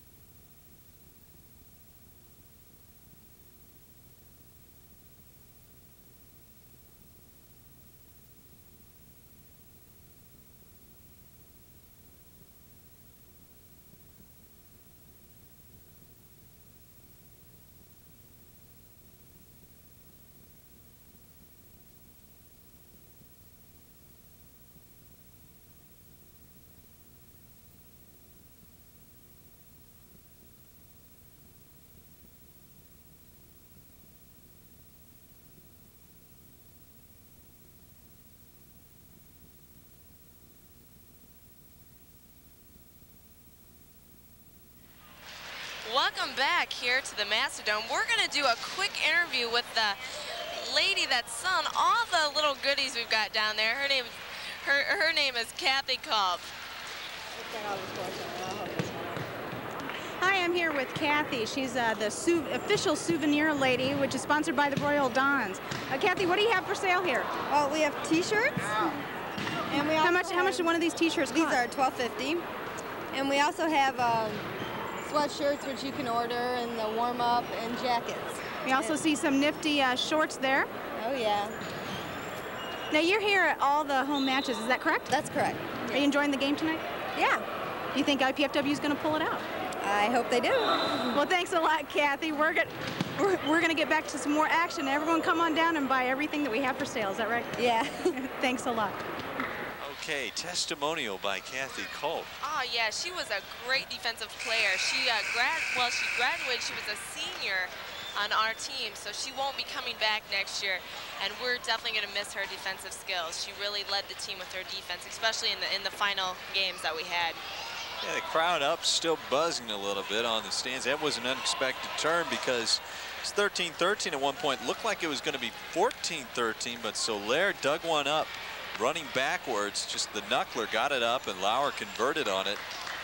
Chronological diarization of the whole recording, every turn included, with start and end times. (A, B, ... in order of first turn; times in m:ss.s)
0:45.8-0:56.4 A
0:57.4-0:59.2 B
1:00.2-1:07.3 C
1:07.5-1:08.9 B
1:09.7-1:10.7 B
1:10.0-1:11.6 C
1:11.3-1:12.4 B
1:13.1-1:14.4 B
1:15.0-1:19.0 B
1:18.6-1:20.7 C
1:21.0-1:21.6 B
1:22.9-1:25.1 C
1:25.1-1:26.1 B
1:25.9-1:27.4 C
1:27.9-1:29.5 C
1:29.8-1:31.2 B
1:31.1-1:37.6 C
1:37.6-1:38.0 B
1:38.2-1:39.0 C
1:39.8-1:42.3 D
1:42.4-1:57.4 A
1:58.0-2:12.6 D